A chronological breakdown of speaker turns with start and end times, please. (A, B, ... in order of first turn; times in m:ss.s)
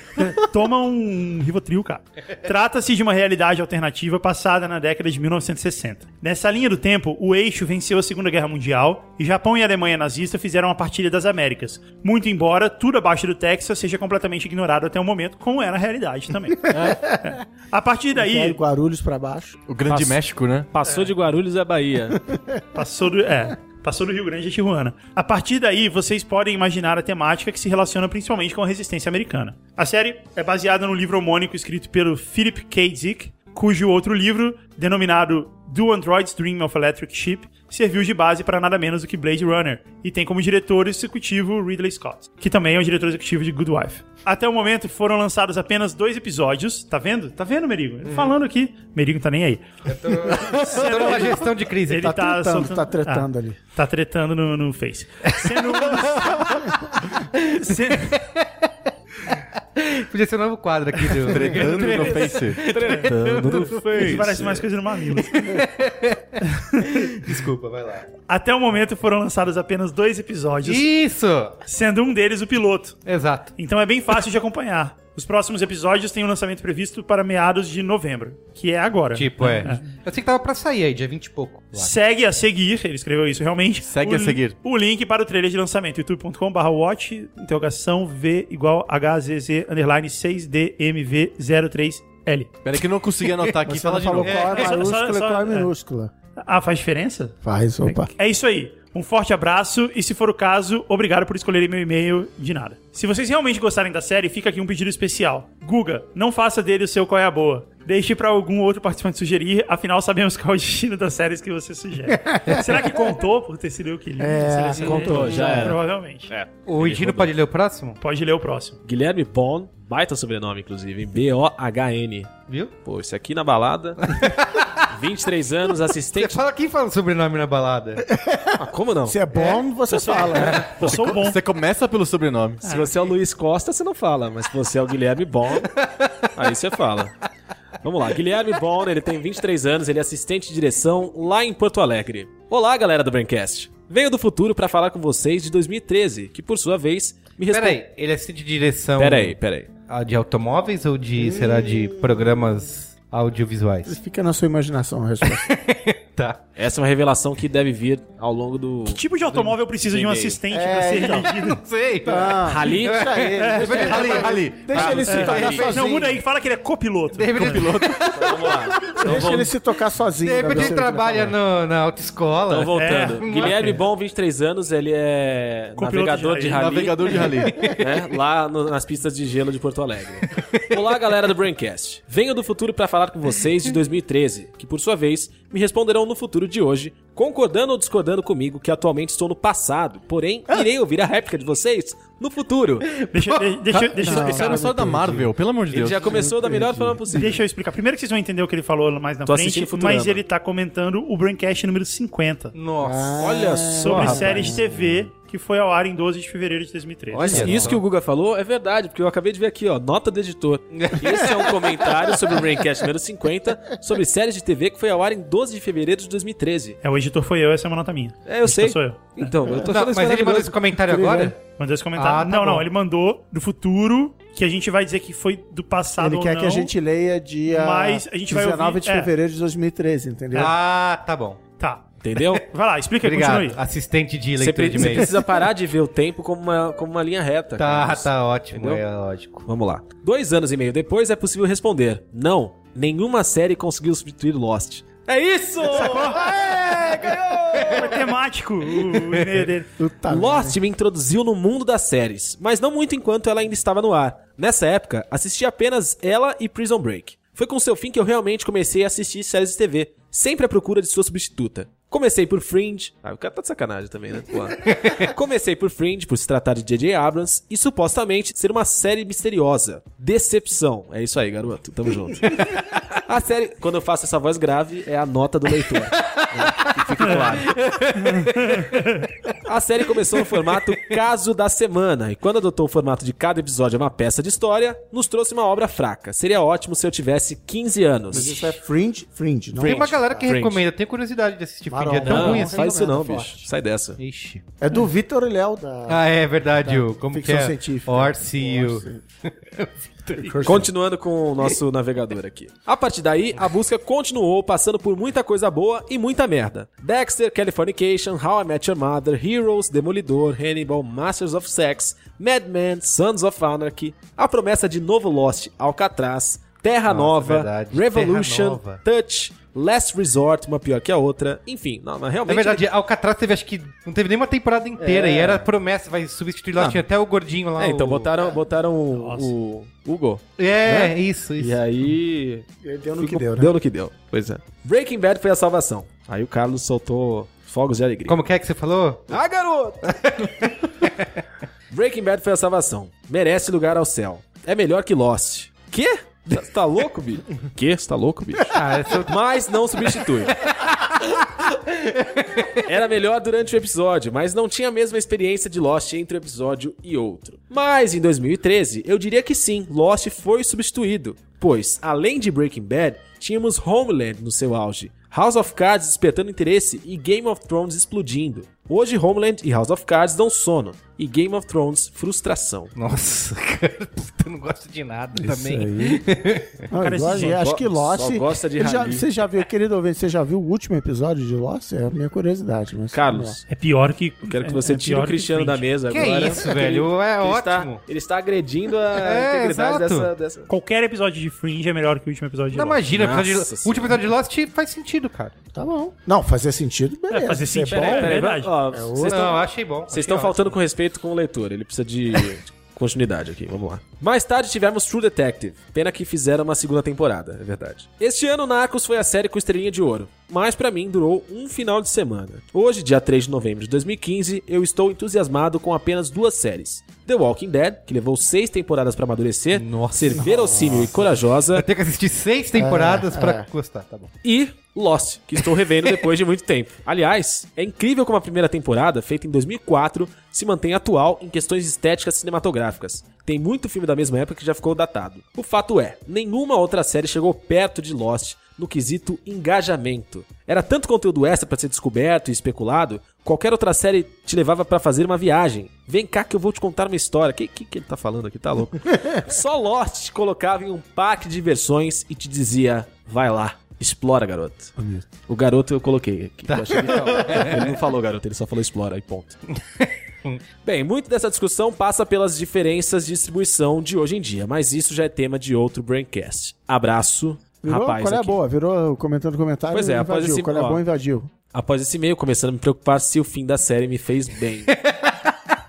0:00.2-0:18.6 A
0:16.7-0:17.1 B
0:16.8-0:17.3 C
0:18.1-0:19.6 C
0:19.7-0:20.7 B
0:19.9-0:20.2 D
0:20.7-0:22.2 D
0:22.3-0:22.6 C
0:22.8-0:56.9 A
0:49.8-0:52.2 E
0:52.0-0:53.6 C
0:55.2-0:56.0 E
0:57.3-0:58.5 E
0:57.5-0:58.2 A
0:59.3-1:04.3 E
1:01.1-1:03.1 A
1:01.2-1:02.6 B
1:02.6-1:04.7 D
1:04.0-1:05.6 A
1:05.2-1:08.1 E
1:06.6-1:07.1 A
1:08.3-1:10.9 A
1:10.6-1:11.6 E
1:11.6-1:13.0 A
1:13.1-1:13.5 E
1:13.6-1:19.9 A
1:19.1-1:22.0 E
1:21.8-1:32.6 A
1:23.8-1:24.6 B
1:32.6-1:34.5 B
1:33.6-1:36.1 C
1:34.2-1:34.8 E
1:34.5-1:35.7 A
1:36.4-1:37.4 A
1:37.4-1:38.1 C
1:37.9-1:56.3 A
1:52.3-1:52.9 C
1:54.2-1:55.8 C
1:54.8-1:57.3 D
1:56.7-1:58.0 E
1:58.0-1:58.8 A
1:58.8-2:02.3 D
2:02.8-2:04.2 D
2:04.1-2:04.9 E
2:04.9-2:06.4 D
2:06.1-2:08.1 E
2:08.1-2:10.8 C
2:08.6-2:09.2 D
2:09.9-2:10.5 D
2:09.9-2:11.4 A
2:10.8-2:12.6 B
2:12.6-2:13.1 A
2:12.6-2:15.7 D
2:15.8-2:16.3 E
2:16.4-2:17.2 D
2:17.8-2:27.8 D
2:27.5-2:29.4 E
2:29.0-2:29.7 D
2:29.9-2:34.0 E
2:31.2-2:32.4 C
2:33.9-2:35.5 C
2:35.2-2:36.4 E
2:36.6-2:40.4 D
2:38.9-2:41.6 A
2:40.5-2:41.3 C
2:41.0-2:45.8 E
2:42.0-2:46.2 C
2:42.4-2:43.1 D
2:43.4-2:44.2 A
2:43.8-2:45.8 B
2:44.8-2:45.7 D
2:45.1-2:47.7 A
2:47.1-2:49.5 E
2:47.4-2:48.1 B
2:48.1-2:49.5 D
2:49.0-2:51.4 C
2:50.2-2:53.8 E
2:52.5-3:13.0 D
2:52.8-2:53.8 A
2:55.8-2:57.2 A
2:56.5-2:57.8 B
2:57.4-2:57.8 E
3:00.3-3:00.7 E
3:12.9-3:13.6 E
3:13.1-3:14.7 A
3:14.0-3:16.3 B
3:14.0-3:15.3 C
3:15.7-3:17.4 D
3:16.0-3:17.4 C
3:17.1-3:22.6 A
3:19.2-3:20.2 D
3:22.5-3:23.2 E
3:22.8-3:24.9 C
3:23.2-3:24.6 D
3:23.8-3:27.6 A
3:27.1-3:36.8 D
3:27.2-3:27.8 C
3:27.2-3:27.8 E
3:30.7-3:31.5 E
3:36.8-3:39.3 A
3:38.3-3:40.6 D
3:39.4-3:39.7 C
3:39.7-3:41.4 E
3:40.8-3:41.4 C
3:41.6-3:46.7 A
3:42.0-3:42.7 E
3:46.0-3:50.5 C
3:47.5-3:49.1 A
3:50.3-3:51.4 E
3:51.6-3:51.9 A
3:52.0-3:52.4 D
3:52.4-3:53.6 A
3:53.0-3:55.2 E
3:54.4-3:58.8 D
3:57.6-3:59.5 E
3:59.5-4:08.2 D
4:05.8-4:06.3 A
4:07.6-4:09.7 A
4:09.8-4:10.6 C
4:10.1-4:37.6 D
4:24.7-4:25.1 E
4:32.3-4:32.6 E
4:36.0-4:39.3 E
4:38.3-4:39.1 A
4:39.4-4:48.6 D
4:48.1-4:50.1 C
4:49.6-4:50.6 D
4:49.6-4:52.7 E
4:51.7-4:53.5 C
4:52.0-4:54.0 D
4:54.0-4:54.4 E
4:54.6-4:56.0 C
4:55.9-5:00.6 E
4:56.6-4:59.0 C
5:00.2-5:00.7 C
5:00.4-5:22.7 D
5:16.9-5:18.8 E
5:22.3-5:28.1 E
5:24.8-5:25.5 D
5:26.6-5:26.8 D
5:27.6-5:32.5 D
5:28.9-5:29.3 A
5:30.4-5:31.6 E
5:32.6-5:33.5 C
5:33.0-5:38.2 D
5:38.1-5:39.2 E
5:39.1-5:40.0 D
5:39.9-5:41.1 E
5:41.7-5:51.5 D
5:48.5-5:49.2 E
5:50.2-5:51.1 E
5:52.0-5:52.6 E
5:52.6-6:12.7 D
6:12.8-6:16.7 E
6:15.2-6:16.0 C
6:16.7-6:23.4 C
6:16.7-6:17.4 A
6:17.1-6:19.1 D
6:22.9-6:23.4 D
6:23.5-6:25.6 A
6:24.2-6:30.5 D
6:25.9-6:27.8 E
6:29.0-6:30.1 E
6:30.5-6:32.8 A
6:32.5-6:35.3 E
6:32.9-6:34.0 D
6:35.5-6:39.4 C
6:37.1-6:38.5 A
6:37.7-7:01.6 D
6:39.0-6:40.6 E
6:59.5-7:01.0 E
7:00.2-7:01.0 C
7:01.5-7:04.1 E
7:02.6-7:03.5 C
7:04.2-7:39.4 D
7:05.6-7:05.9 E
7:34.8-7:35.1 C
7:36.5-7:37.8 E
7:39.8-7:40.4 E
7:40.6-7:48.4 D
7:47.6-7:51.3 C
7:49.7-7:50.8 D
7:51.5-7:54.7 D
7:54.7-7:55.2 E